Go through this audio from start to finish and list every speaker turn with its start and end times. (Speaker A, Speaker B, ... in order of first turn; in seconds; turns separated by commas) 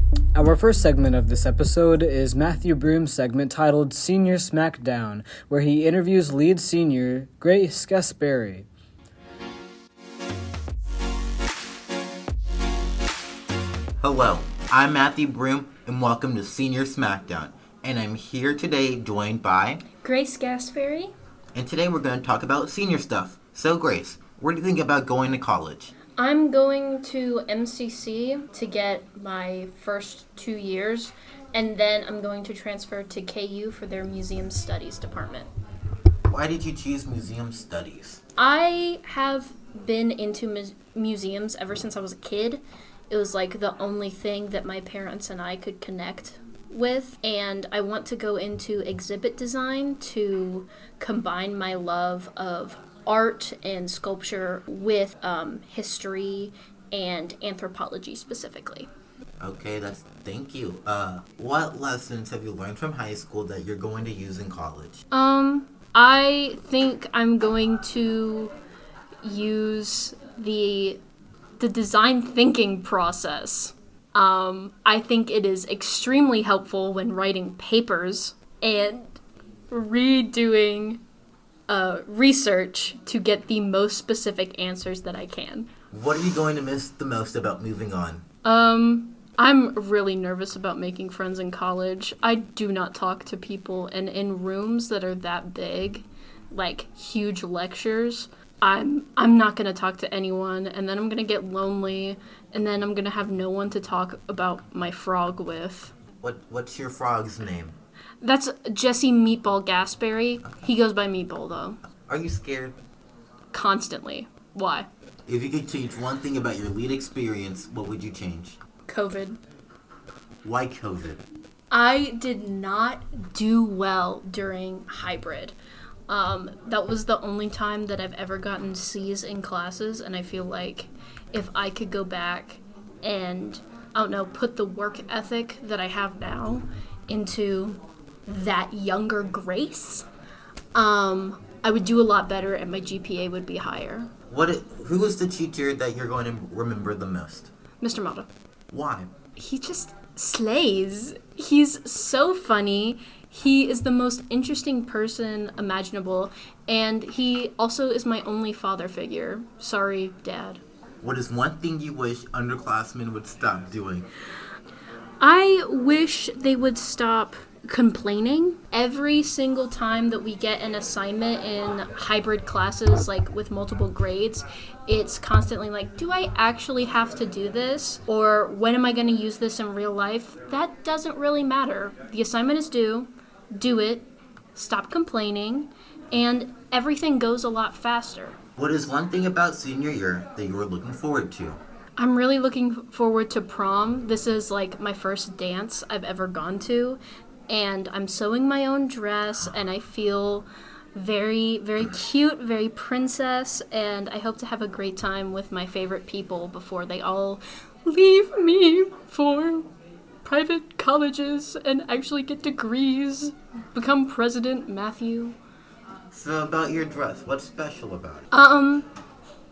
Speaker A: 0.3-8.7, Speaker B: 14.0-19.8, Speaker C: 20.0-21.1, Speaker B: 21.6-25.9, Speaker C: 26.2-35.5, Speaker B: 36.3-38.2, Speaker C: 38.4-58.9, Speaker B: 59.4-65.0, Speaker C: 65.1-68.5, Speaker C: 69.2-71.0, Speaker C: 71.6-79.2, Speaker C: 79.7-81.0, Speaker C: 81.7-85.7, Speaker B: 85.9-88.2, Speaker C: 88.5-105.9, Speaker B: 106.2-107.8, Speaker C: 108.2-111.8, Speaker B: 112.1-112.8, Speaker C: 113.5-114.9, Speaker B: 115.3-118.6, Speaker C: 118.9-119.4, Speaker B: 120.4-121.2, Speaker C: 121.7-125.5, Speaker C: 126.1-140.1, Speaker C: 140.8-144.1, Speaker B: 144.3-147.5, Speaker C: 147.8-148.3, Speaker B: 148.7-149.1, Speaker C: 149.4-160.6, Speaker B: 161.0-164.1, Speaker C: 165.2-188.4, Speaker B: 188.6-191.6, Speaker C: 192.0-209.7, Speaker C: 210.2-215.4, Speaker B: 216.1-218.3, Speaker C: 218.3-218.9